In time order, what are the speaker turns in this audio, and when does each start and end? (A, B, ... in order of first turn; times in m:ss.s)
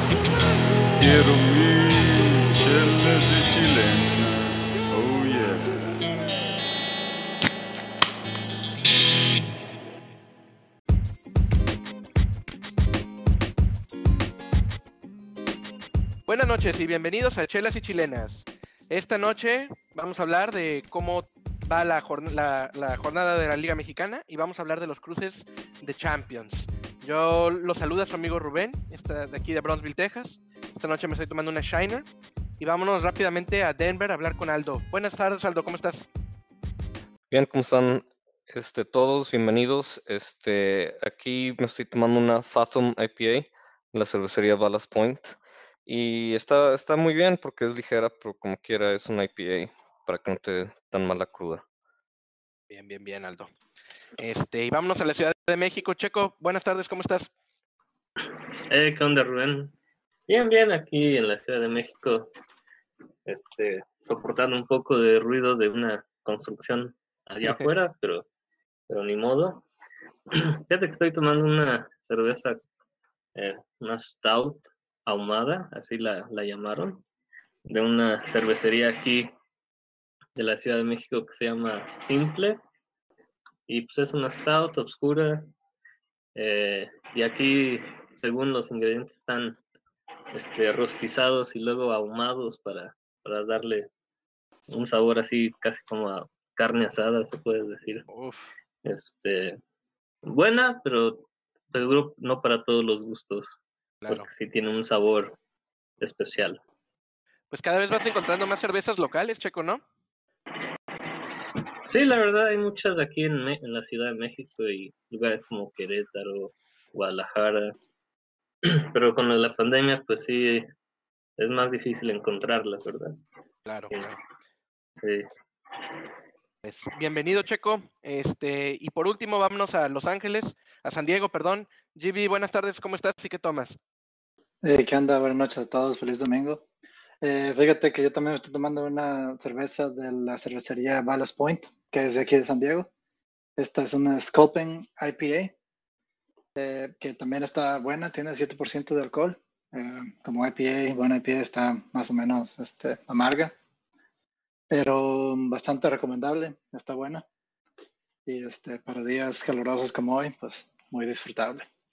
0:00.5-0:06.2 A
0:16.3-0:32.1 B
0:32.6-0:36.1 B
0:37.3-0:45.4 C
0:45.9-0:51.6 C
0:52.7-0:53.5 B
0:54.2-0:57.3 B
0:58.2-0:59.8 D
1:00.3-1:02.3 D
1:03.3-1:08.3 D
1:08.9-1:09.7 D
1:10.3-1:12.6 D
1:13.4-1:17.0 D
1:17.7-1:19.3 D
1:20.4-1:22.6 D
1:23.7-1:25.5 D
1:26.4-1:29.6 D
1:30.3-1:33.9 D
1:34.7-1:38.1 D
1:38.1-1:38.5 B
1:38.8-1:39.6 D
1:40.2-1:43.5 D
1:44.0-1:44.3 B
1:44.1-1:45.4 D
1:46.0-1:46.6 D
1:47.5-1:49.8 B
1:51.9-1:57.8 D
1:58.6-2:00.7 D
2:01.4-2:03.2 D
2:03.7-2:04.2 B
2:05.0-2:06.1 D
2:06.6-2:13.8 B
2:14.6-2:16.6 E
2:17.2-2:22.9 E
2:23.6-2:25.5 E
2:26.6-2:33.6 E
2:34.7-2:37.2 E
2:38.3-2:41.7 E